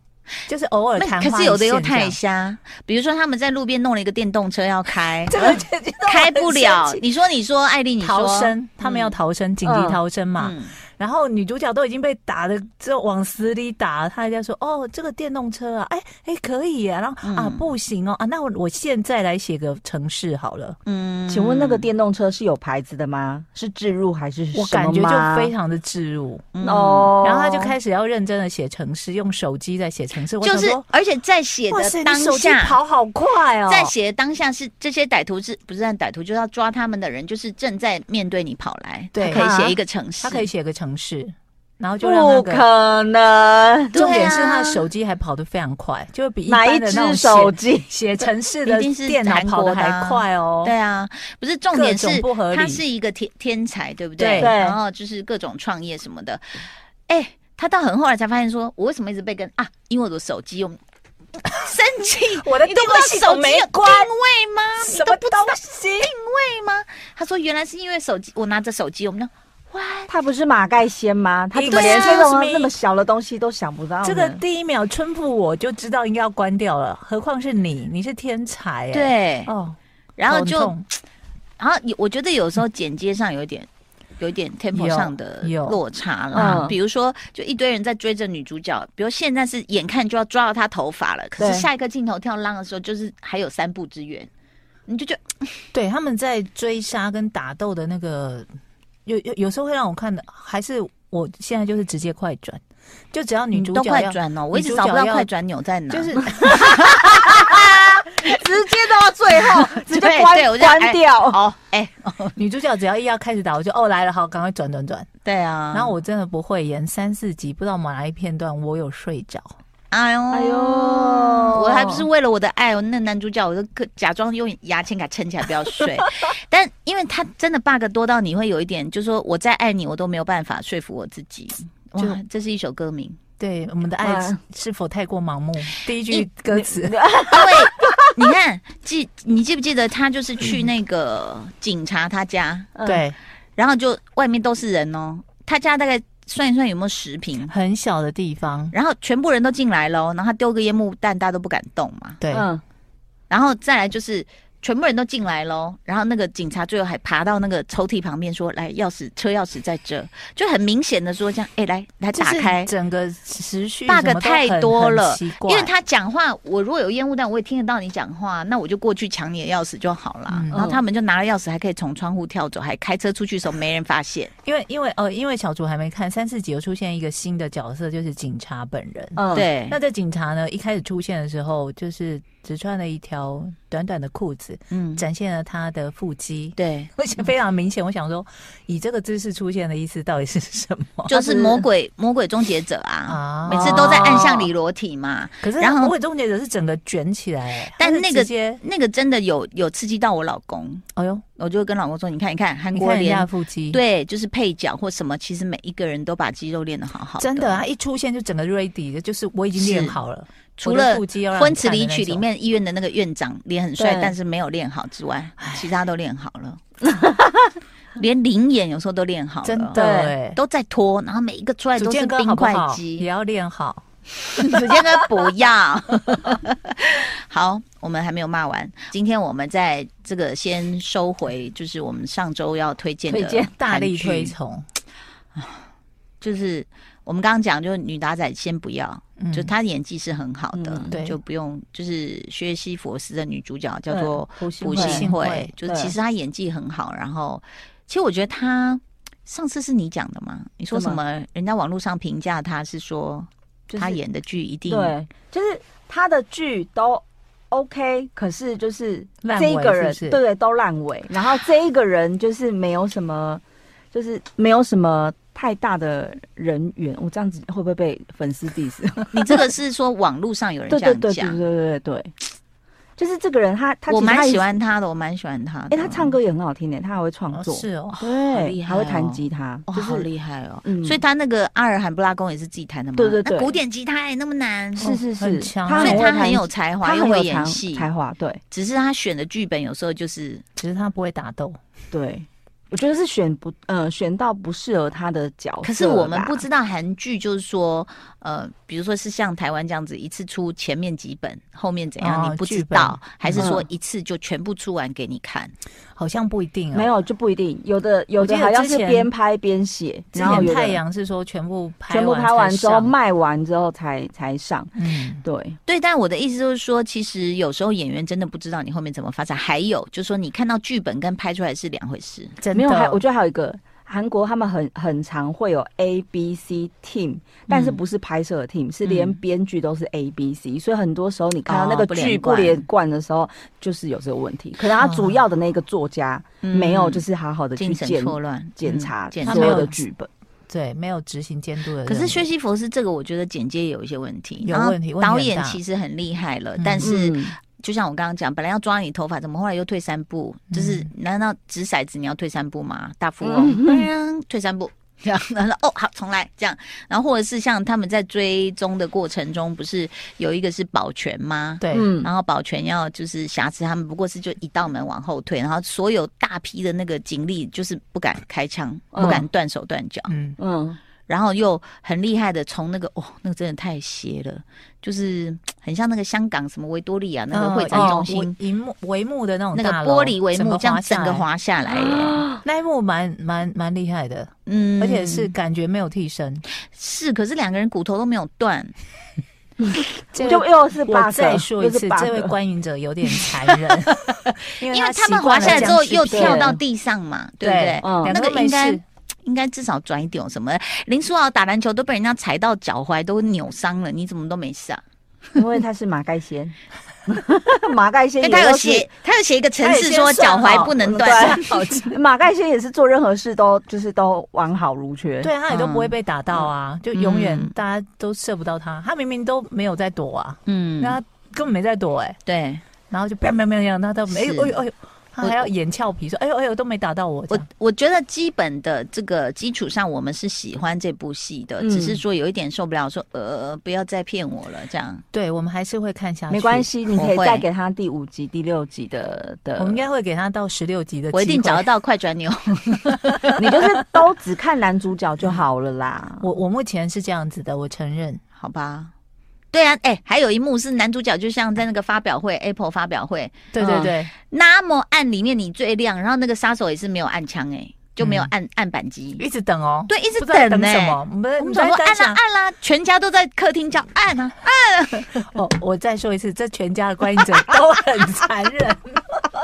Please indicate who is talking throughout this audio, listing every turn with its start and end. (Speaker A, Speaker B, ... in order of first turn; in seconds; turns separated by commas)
Speaker A: 0.5-2.2, Speaker B: 1.0-9.1, Speaker A: 5.3-7.1, Speaker A: 8.0-20.8, Speaker C: 9.6-10.0, Speaker B: 10.4-10.8, Speaker B: 17.2-17.7, Speaker B: 20.9-21.9, Speaker C: 21.3-25.5, Speaker A: 24.5-26.5, Speaker B: 26.6-27.2, Speaker C: 26.6-27.8, Speaker A: 27.2-30.9, Speaker B: 30.4-32.8, Speaker A: 31.7-33.9, Speaker B: 33.7-40.5, Speaker A: 39.1-42.7, Speaker C: 42.0-44.1, Speaker A: 43.9-50.7, Speaker B: 44.0-44.9, Speaker C: 46.5-47.9, Speaker B: 48.6-56.4, Speaker A: 51.7-52.8, Speaker A: 54.2-54.6, Speaker C: 54.4-54.8, Speaker B: 57.1-60.8, Speaker B: 61.6-70.1, Speaker A: 62.4-64.1, Speaker A: 64.8-66.1, Speaker C: 70.1-74.4, Speaker A: 71.5-72.7, Speaker B: 71.7-72.3, Speaker A: 74.0-80.8, Speaker B: 78.9-79.5, Speaker B: 80.2-81.0, Speaker B: 81.6-83.7, Speaker B: 84.2-94.3, Speaker A: 84.7-85.8, Speaker C: 86.3-86.8, Speaker A: 86.4-86.7, Speaker C: 91.4-91.7, Speaker B: 94.9-95.5, Speaker A: 95.7-98.5, Speaker A: 99.1-102.6, Speaker A: 103.1-105.3, Speaker B: 103.5-108.0, Speaker A: 105.9-107.0, Speaker C: 107.0-107.5, Speaker C: 108.1-111.4, Speaker B: 109.8-112.4, Speaker A: 112.4-115.1, Speaker B: 115.2-116.0, Speaker A: 115.7-119.5, Speaker B: 119.9-133.2, Speaker C: 120.3-122.0, Speaker A: 133.4-137.0, Speaker C: 134.0-134.4, Speaker C: 136.5-138.0, Speaker B: 137.3-142.8, Speaker C: 142.8-143.1, Speaker A: 142.8-143.2, Speaker B: 143.6-147.5, Speaker A: 147.5-148.7, Speaker B: 148.7-152.2, Speaker A: 152.2-152.5, Speaker C: 152.3-152.6, Speaker B: 153.3-162.7, Speaker A: 162.1-165.7, Speaker B: 163.9-174.3, Speaker A: 170.3-170.7, Speaker C: 170.5-170.8, Speaker A: 174.5-191.2, Speaker C: 179.2-179.5, Speaker B: 179.3-179.8, Speaker B: 184.7-185.1, Speaker B: 186.6-186.9, Speaker B: 191.1-195.9, Speaker C: 191.3-191.7, Speaker A: 193.1-194.3, Speaker C: 193.5-194.5, Speaker A: 195.4-198.6, Speaker B: 197.8-200.8, Speaker A: 201.0-201.2, Speaker B: 201.4-207.7, Speaker A: 202.7-203.8, Speaker A: 207.2-212.2, Speaker B: 209.6-210.0, Speaker B: 210.6-216.6, Speaker C: 213.8-214.1, Speaker A: 215.4-215.7, Speaker C: 216.8-217.6, Speaker B: 218.0-223.1, Speaker A: 219.4-220.4, Speaker C: 219.7-220.2, Speaker A: 221.8-223.8, Speaker B: 224.4-234.3, Speaker A: 233.1-234.7, Speaker C: 233.2-233.5, Speaker B: 236.2-254.9, Speaker A: 239.2-239.5, Speaker C: 240.5-241.0, Speaker A: 240.9-241.2, Speaker C: 243.9-245.1, Speaker A: 244.6-245.5, Speaker C: 245.6-245.9, Speaker C: 250.7-251.0, Speaker C: 253.7-254.0, Speaker C: 254.7-263.4, Speaker A: 259.2-260.2, Speaker C: 263.9-269.5, Speaker B: 269.1-271.4, Speaker C: 270.7-272.1, Speaker C: 273.0-274.5, Speaker B: 273.9-276.1, Speaker C: 275.7-280.1, Speaker A: 277.3-278.0, Speaker B: 278.3-285.0, Speaker C: 280.6-281.0, Speaker C: 283.0-283.5, Speaker C: 284.8-288.4, Speaker A: 284.8-286.1, Speaker B: 285.8-287.9, Speaker B: 288.5-290.4, Speaker A: 290.6-291.6, Speaker C: 291.9-296.5, Speaker B: 295.6-305.5, Speaker A: 302.0-303.5, Speaker C: 303.4-303.6, Speaker A: 305.9-306.9, Speaker C: 306.7-310.8, Speaker A: 308.2-309.1, Speaker A: 310.1-312.9, Speaker B: 310.3-310.5, Speaker C: 311.9-315.6, Speaker A: 314.8-315.2, Speaker B: 315.7-322.4, Speaker A: 322.4-323.0, Speaker C: 322.5-340.1, Speaker B: 327.5-327.8, Speaker B: 328.8-329.2, Speaker B: 331.5-332.6, Speaker A: 334.8-335.2, Speaker B: 336.4-337.1, Speaker B: 337.6-339.7, Speaker A: 339.2-339.8, Speaker A: 340.5-342.3, Speaker B: 341.9-370.1, Speaker A: 344.4-345.6, Speaker A: 346.6-346.9, Speaker C: 346.8-347.4, Speaker A: 350.5-350.9, Speaker C: 353.2-353.8, Speaker A: 361.6-362.0, Speaker C: 361.7-362.1, Speaker C: 368.9-369.2, Speaker A: 370.1-370.4, Speaker C: 370.4-370.8, Speaker B: 371.1-378.4, Speaker A: 377.3-381.3, Speaker C: 377.7-378.1, Speaker B: 379.5-382.3, Speaker C: 381.7-382.3, Speaker A: 382.4-386.4, Speaker B: 384.5-385.3, Speaker B: 386.7-388.7, Speaker C: 390.1-392.3, Speaker A: 390.1-396.6, Speaker B: 393.2-393.8, Speaker B: 394.7-404.8, Speaker C: 395.4-396.6, Speaker A: 397.4-398.8, Speaker C: 397.8-398.1, Speaker C: 405.4-406.5, Speaker C: 407.1-408.9, Speaker B: 408.2-411.8, Speaker A: 409.6-412.0, Speaker C: 410.0-415.3, Speaker A: 415.2-422.2, Speaker B: 415.5-417.6, Speaker B: 420.5-421.0, Speaker B: 422.3-422.6, Speaker A: 422.9-427.4, Speaker B: 424.1-424.6, Speaker B: 425.2-425.5, Speaker B: 427.3-435.0, Speaker C: 431.6-432.0, Speaker A: 435.1-436.7, Speaker C: 436.3-439.9, Speaker B: 436.9-437.4, Speaker A: 439.6-441.7, Speaker B: 441.1-443.6, Speaker C: 443.4-446.3, Speaker A: 446.2-448.2, Speaker B: 448.4-448.9, Speaker B: 449.5-453.5, Speaker A: 453.5-454.1, Speaker C: 453.6-453.9, Speaker B: 454.1-459.2, Speaker A: 458.0-458.3, Speaker A: 459.2-462.2, Speaker B: 459.9-465.1, Speaker A: 465.1-469.2